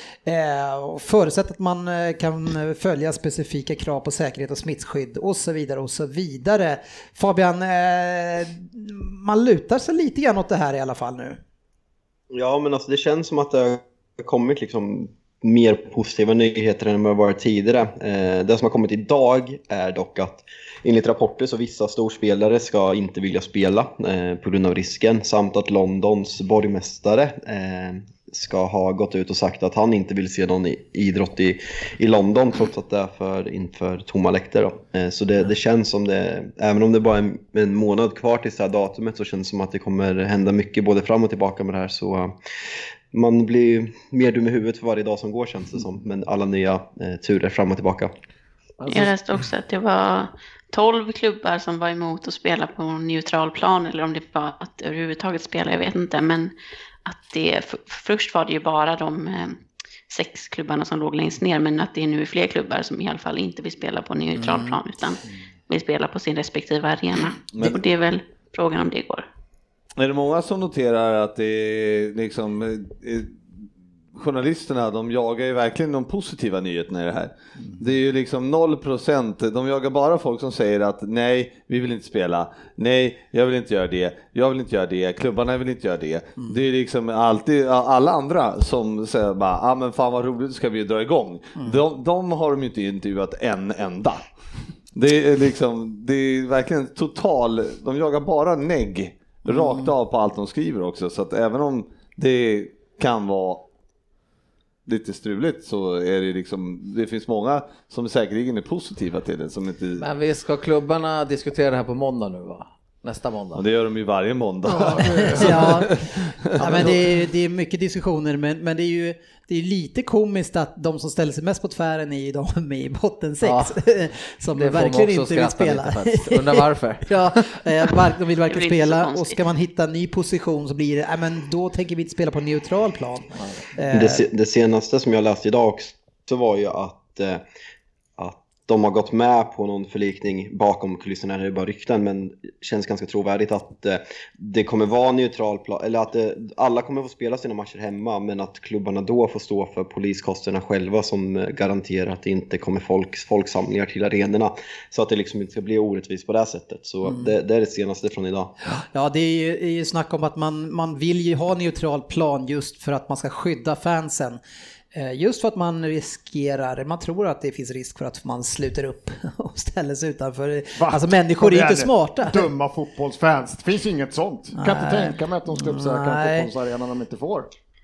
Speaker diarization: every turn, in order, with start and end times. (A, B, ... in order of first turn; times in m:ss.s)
0:00.2-0:11.4 A
0:12.3-0:42.3 B
0:43.1-0:48.1 B
0:48.8-0:49.1 C
0:48.9-0:56.5 D
0:57.0-0:59.6 D
1:00.1-1:09.2 D
1:04.4-1:04.8 A
1:07.5-1:07.8 E
1:10.0-1:13.4 E
1:14.1-1:34.2 E
1:34.9-1:43.6 E
1:44.8-1:50.0 E
1:50.0-1:53.6 C
1:53.5-1:56.9 E
1:54.6-1:55.9 F
1:55.0-1:56.0 A
1:56.6-2:14.2 A
1:56.6-1:57.0 C
2:03.4-2:03.8 C
2:04.5-2:07.9 C
2:08.5-2:09.4 D
2:13.3-2:13.6 C
2:13.9-2:17.4 B
2:18.2-2:38.5 B
2:37.0-2:37.3 A
2:38.6-2:44.4 A
2:44.9-2:52.5 A
2:50.8-2:57.5 F
2:54.6-2:56.5 A